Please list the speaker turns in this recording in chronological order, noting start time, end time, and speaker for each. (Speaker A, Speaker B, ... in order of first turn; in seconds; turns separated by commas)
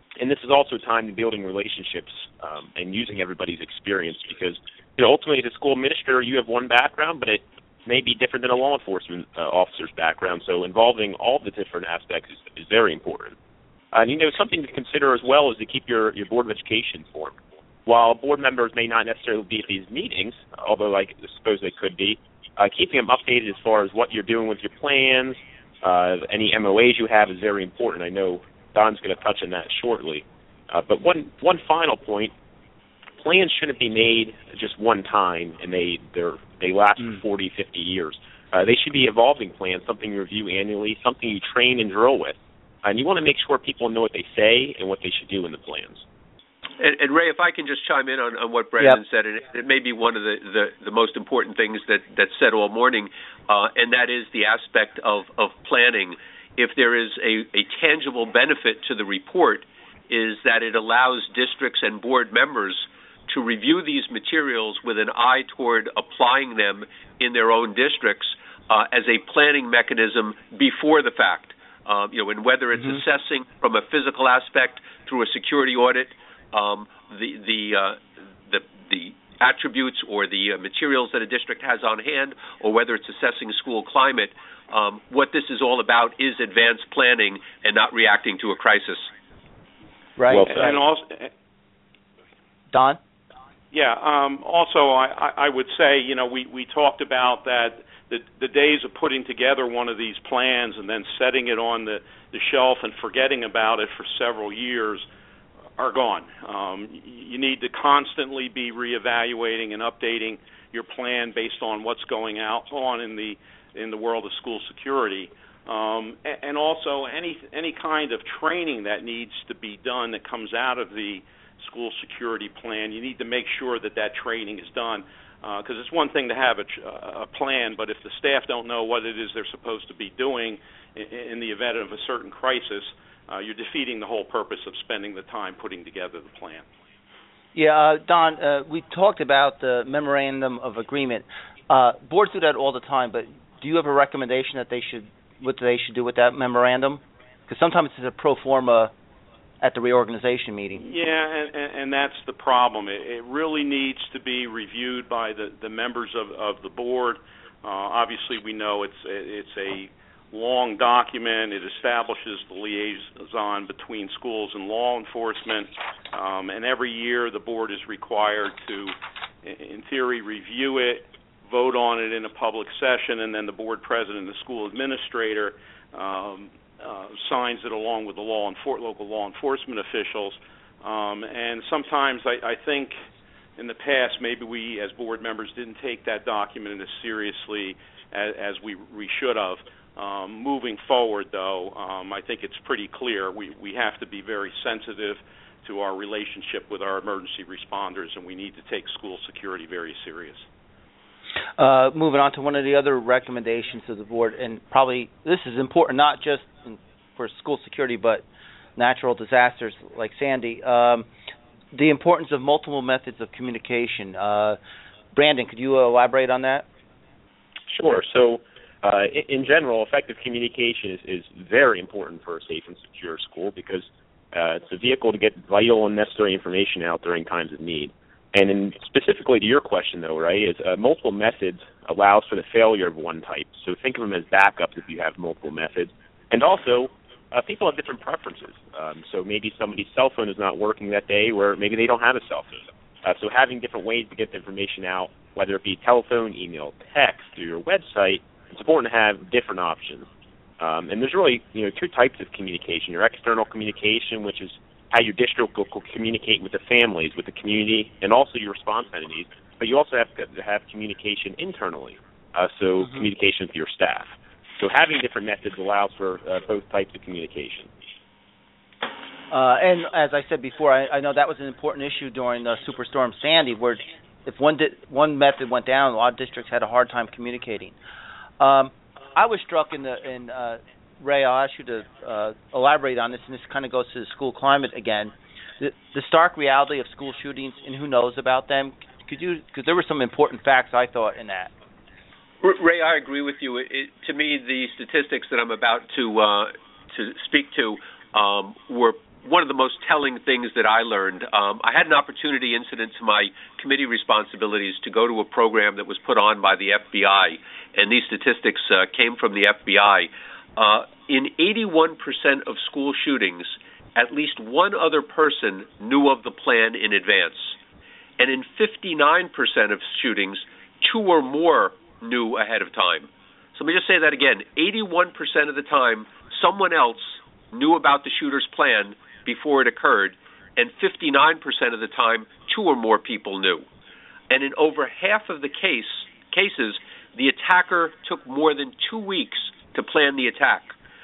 Speaker A: 0.2-13.3, Speaker A: 13.9-32.3, Speaker A: 33.2-46.0, Speaker B: 46.8-89.1, Speaker C: 90.2-90.8, Speaker A: 90.3-90.7, Speaker D: 90.5-91.3, Speaker C: 92.7-93.0, Speaker D: 93.7-105.0, Speaker D: 105.8-136.6, Speaker C: 137.5-148.9, Speaker C: 149.6-150.8, Speaker D: 150.8-182.9, Speaker D: 183.6-200.4, Speaker C: 201.6-208.2, Speaker C: 208.8-211.1, Speaker C: 211.7-214.6, Speaker C: 215.1-216.7, Speaker A: 217.7-250.1, Speaker A: 250.6-267.7, Speaker C: 269.3-277.7, Speaker C: 278.4-291.5, Speaker B: 292.4-317.6, Speaker B: 318.2-333.6, Speaker B: 334.3-340.7